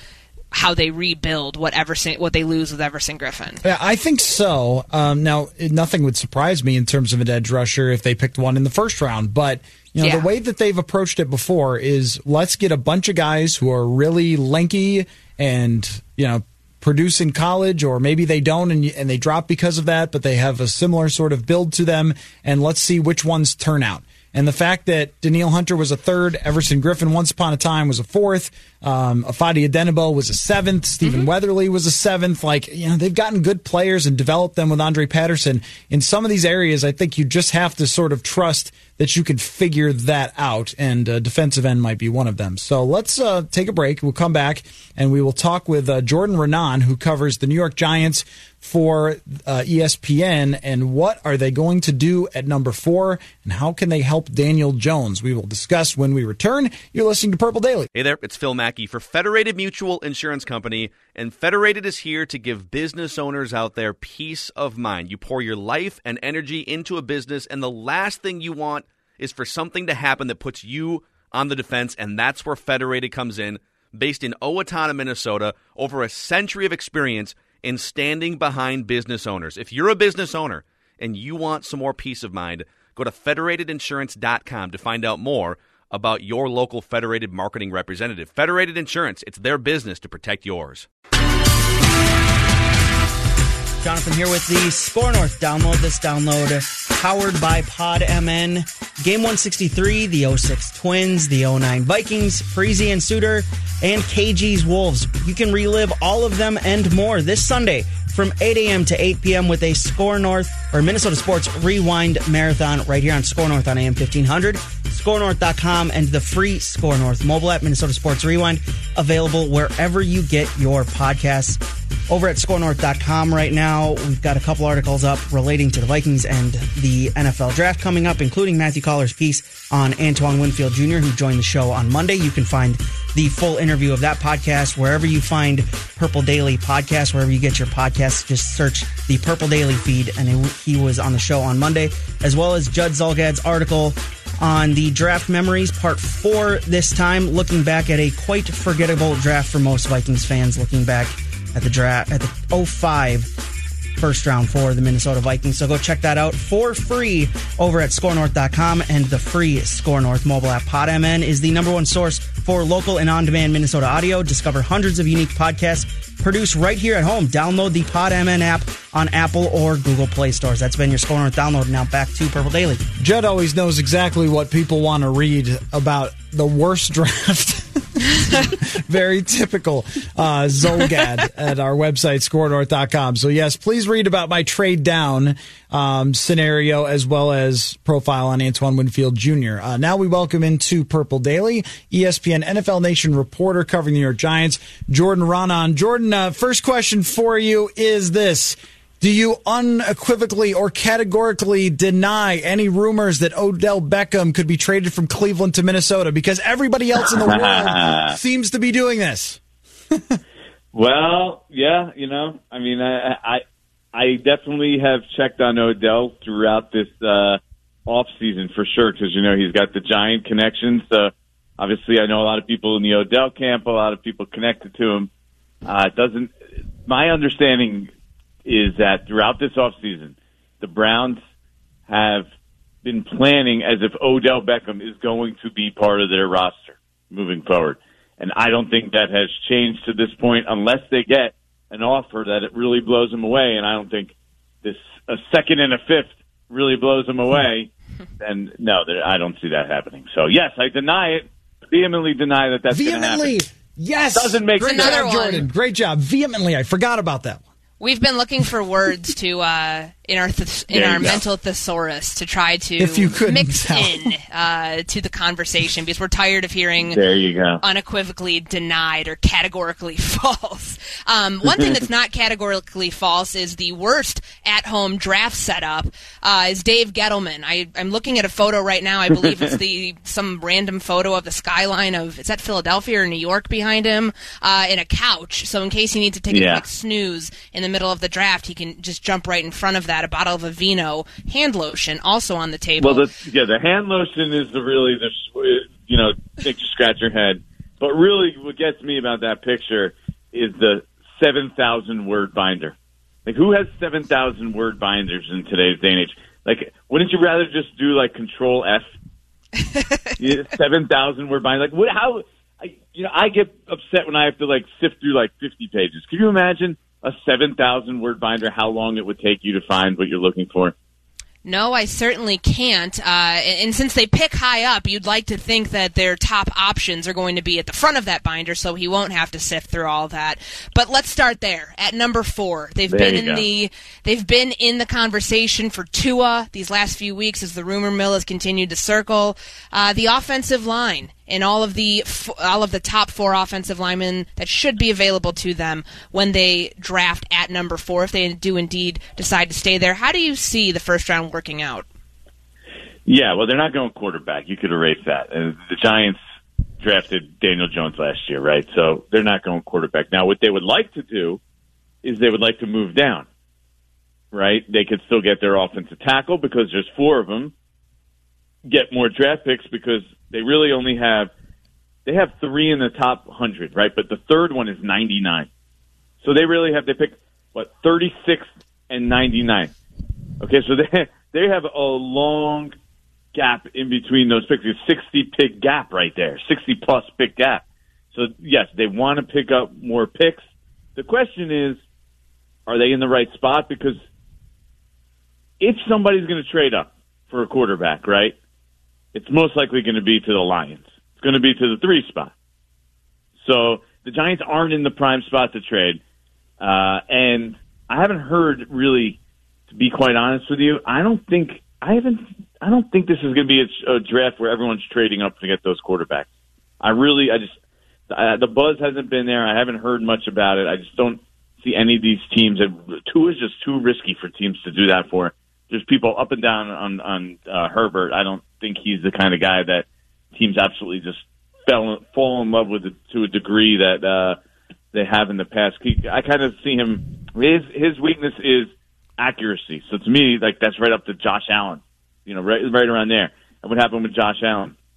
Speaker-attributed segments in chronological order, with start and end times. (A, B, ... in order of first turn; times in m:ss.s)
0:00.5-0:03.6 A
0:03.6-0:57.9 B
0:10.0-0:10.3 A
0:31.0-0:31.3 A
0:57.9-1:30.9 C
1:33.8-2:33.3 D
2:34.0-2:52.8 D
2:53.0-3:29.4 B
3:27.0-3:28.2 E
3:29.9-3:30.2 B
3:30.7-3:45.1 E
3:45.6-3:46.3 E
3:46.8-3:47.9 E
3:48.4-3:51.2 E
3:51.9-3:52.3 E
3:52.8-4:07.7 E
4:08.2-4:13.3 E
4:12.7-4:17.4 B
4:14.1-4:15.4 E
4:14.6-4:15.5 A
4:17.8-4:27.0 A
4:20.7-4:21.3 E
4:22.8-4:24.1 B
4:26.9-4:27.6 E
4:27.6-4:53.1 A
4:46.3-4:46.6 E
4:52.8-5:02.7 E
5:03.2-5:08.9 E
5:10.2-5:20.7 E
5:21.4-5:51.8 A
5:32.9-5:33.4 E
5:53.0-5:56.2 E
5:56.8-6:01.4 E
6:02.0-6:03.3 E
6:04.3-6:07.5 E
6:08.6-6:11.3 E
6:12.0-6:15.5 E
6:16.2-6:19.7 E
6:20.4-6:22.7 E
6:23.3-6:30.4 E
6:31.0-6:31.8 E
6:32.7-6:34.0 E
6:35.6-6:38.3 E
6:39.1-6:42.3 E
6:43.4-6:46.0 E
6:46.6-6:49.2 E
6:49.7-6:56.3 E
6:56.8-6:57.6 E
6:58.1-7:14.4 E
7:14.9-7:24.7 E